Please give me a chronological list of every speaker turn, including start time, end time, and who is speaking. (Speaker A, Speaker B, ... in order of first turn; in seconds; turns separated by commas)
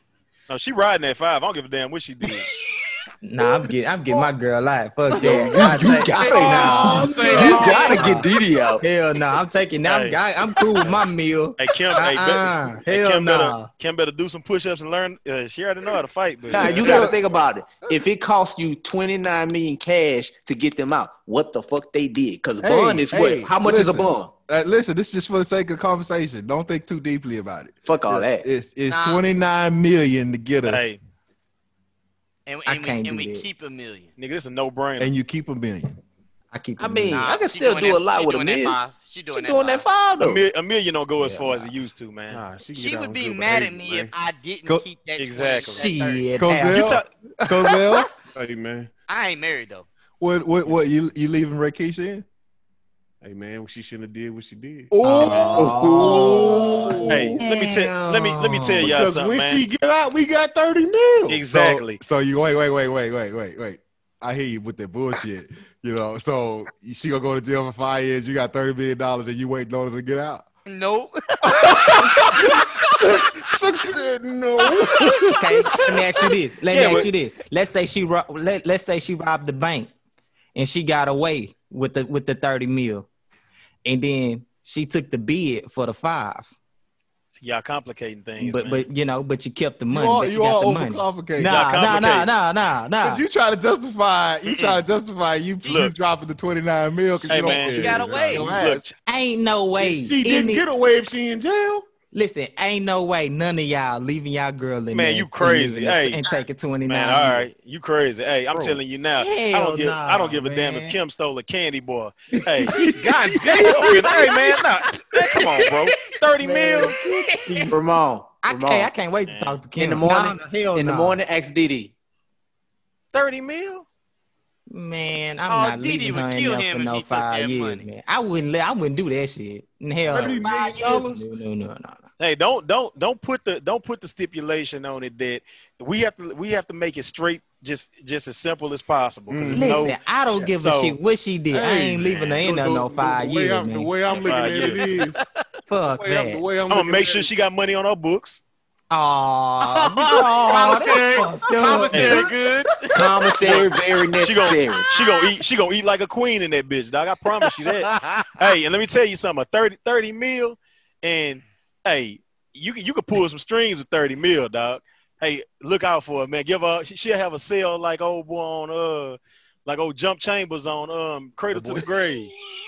Speaker A: 0.5-2.5, Speaker B: 3.2-8.3, Speaker C: 5.1-8.8, Speaker D: 6.1-7.8, Speaker E: 6.2-8.2, Speaker B: 8.8-13.7, Speaker A: 9.8-11.0, Speaker A: 11.6-17.2, Speaker C: 16.5-24.3, Speaker F: 16.5-17.2, Speaker F: 22.6-30.8, Speaker C: 27.9-28.5, Speaker D: 28.9-29.3, Speaker A: 30.6-31.0, Speaker D: 32.5-34.1, Speaker B: 32.7-33.5, Speaker A: 34.2-35.1, Speaker F: 35.0-36.0, Speaker B: 36.5-37.2, Speaker C: 36.8-38.8, Speaker D: 37.1-39.9, Speaker C: 39.3-40.4, Speaker A: 40.2-42.4, Speaker B: 41.2-41.7, Speaker E: 42.3-44.1, Speaker D: 42.7-46.3, Speaker A: 45.2-45.9, Speaker B: 45.4-48.0, Speaker F: 46.4-48.1, Speaker A: 46.6-47.1, Speaker E: 48.3-48.9, Speaker D: 49.1-49.9, Speaker F: 50.2-52.2, Speaker E: 53.2-54.9, Speaker F: 54.9-56.6, Speaker B: 55.0-59.0, Speaker A: 55.2-55.5, Speaker E: 55.5-57.2, Speaker C: 55.6-57.4, Speaker A: 57.1-59.6, Speaker E: 58.8-61.4, Speaker A: 61.3-62.0, Speaker F: 61.5-70.5, Speaker D: 70.7-71.8, Speaker F: 71.5-72.6, Speaker E: 72.5-75.4, Speaker B: 75.3-79.9, Speaker E: 76.7-77.1, Speaker A: 76.8-77.0, Speaker B: 80.5-83.1, Speaker B: 83.8-86.5, Speaker A: 87.4-88.9, Speaker B: 88.4-93.2, Speaker F: 89.9-91.6, Speaker A: 91.5-92.3, Speaker F: 93.0-98.9, Speaker A: 94.5-94.8, Speaker A: 95.6-95.9, Speaker A: 97.3-98.9, Speaker E: 97.3-98.6, Speaker D: 97.7-98.5, Speaker B: 99.0-100.7, Speaker E: 99.8-101.9, Speaker B: 102.1-107.5, Speaker A: 104.9-106.2, Speaker A: 106.9-112.8, Speaker E: 108.5-108.8, Speaker B: 109.2-111.0, Speaker E: 112.7-114.2, Speaker A: 113.6-117.0, Speaker B: 116.4-117.7, Speaker C: 117.5-118.9, Speaker B: 118.4-121.2, Speaker A: 119.3-119.6, Speaker C: 119.8-121.9, Speaker A: 123.1-123.8, Speaker B: 124.7-132.1, Speaker D: 125.5-127.9, Speaker E: 130.1-131.3, Speaker A: 132.2-141.0, Speaker F: 139.3-139.8, Speaker B: 139.5-143.9, Speaker E: 141.5-145.2, Speaker A: 142.0-142.5, Speaker A: 144.1-144.9, Speaker D: 144.1-145.4, Speaker B: 145.7-146.5, Speaker E: 145.9-147.3, Speaker A: 146.7-148.4, Speaker B: 148.9-152.3, Speaker D: 149.6-153.1, Speaker A: 151.9-152.3, Speaker C: 152.9-154.9, Speaker A: 153.4-172.3, Speaker D: 154.9-155.2, Speaker D: 157.5-158.3, Speaker E: 171.5-172.6